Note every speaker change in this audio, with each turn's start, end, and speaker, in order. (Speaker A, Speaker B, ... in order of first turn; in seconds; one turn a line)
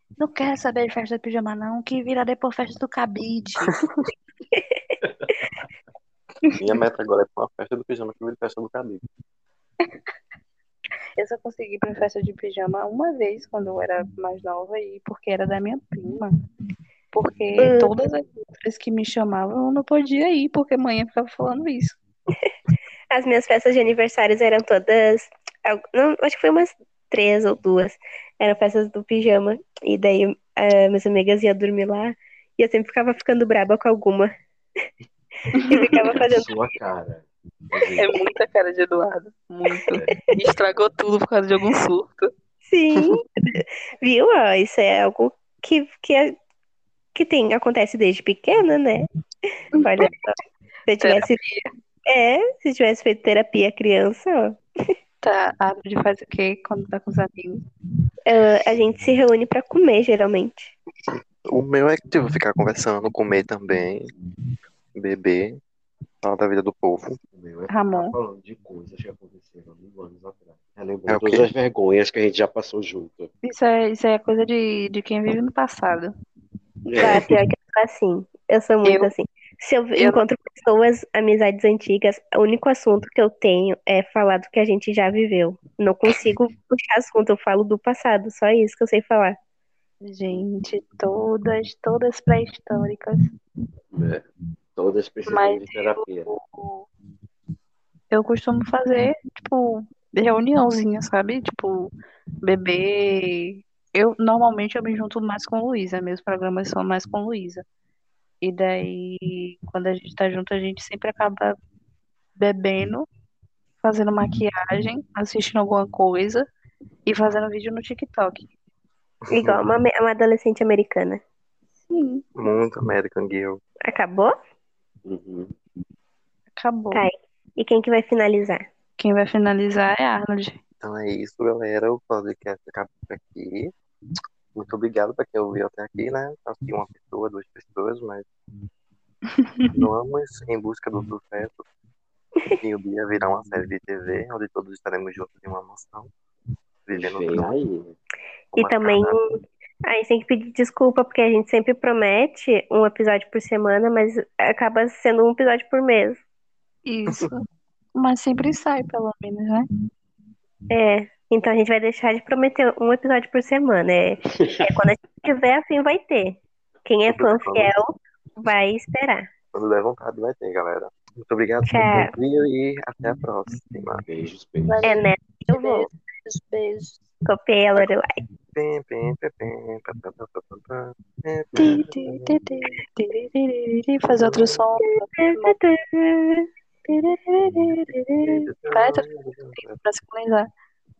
Speaker A: 0.2-3.8
Speaker B: 5.0-5.3
Speaker C: 6.5-9.0
Speaker A: 11.2-16.4
Speaker A: 17.1-22.0
Speaker D: 17.6-17.9
Speaker D: 23.1-34.3
Speaker A: 35.5-36.1
Speaker D: 35.6-36.5
Speaker B: 36.0-38.2
Speaker A: 38.0-42.3
Speaker B: 39.9-40.2
Speaker D: 42.7-46.4
Speaker D: 47.1-49.1
Speaker D: 49.7-50.2
Speaker A: 49.8-50.4
Speaker D: 50.9-51.4
Speaker A: 51.0-51.7
Speaker D: 52.0-54.6
Speaker A: 55.2-57.6
Speaker D: 58.2-60.7
Speaker C: 61.4-64.1
Speaker C: 64.9-65.6
Speaker C: 66.2-67.2
Speaker B: 67.3-73.3
Speaker A: 67.7-68.1
Speaker C: 71.1-71.5
Speaker A: 73.4-76.1
Speaker B: 76.8-77.3
Speaker D: 77.0-89.4
Speaker A: 78.8-79.1
Speaker A: 80.0-80.2
Speaker A: 90.0-93.3
Speaker B: 93.9-96.3
Speaker A: 95.2-96.9
Speaker A: 98.1-101.9
Speaker A: 102.4-107.6
Speaker A: 108.4-111.6
Speaker A: 112.3-113.1
Speaker A: 113.8-116.5
Speaker A: 117.0-118.5
Speaker D: 119.3-121.2
Speaker C: 119.3-119.6
Speaker A: 121.9-122.3
Speaker C: 122.4-123.6
Speaker D: 123.8-124.3
Speaker B: 125.0-125.5
Speaker A: 126.5-127.0
Speaker D: 126.9-128.6
Speaker A: 129.0-130.6
Speaker C: 130.8-133.7
Speaker C: 134.5-138.2
Speaker A: 139.4-139.7
Speaker C: 139.7-141.6
Speaker C: 142.6-146.1
Speaker C: 146.8-147.6
Speaker B: 146.9-147.9
Speaker D: 148.5-149.2
Speaker C: 148.5-149.2
Speaker D: 149.8-156.2
Speaker A: 156.8-159.7
Speaker D: 160.7-169.3
Speaker C: 167.1-167.7
Speaker C: 169.5-174.0
Speaker D: 171.7-172.1
Speaker B: 174.1-174.9
Speaker A: 174.7-177.0
Speaker D: 174.8-175.9
Speaker D: 177.2-178.1
Speaker C: 178.5-182.4
Speaker A: 181.5-185.6
Speaker C: 184.1-184.6
Speaker D: 185.2-186.5
Speaker A: 186.8-190.5
Speaker C: 188.2-189.7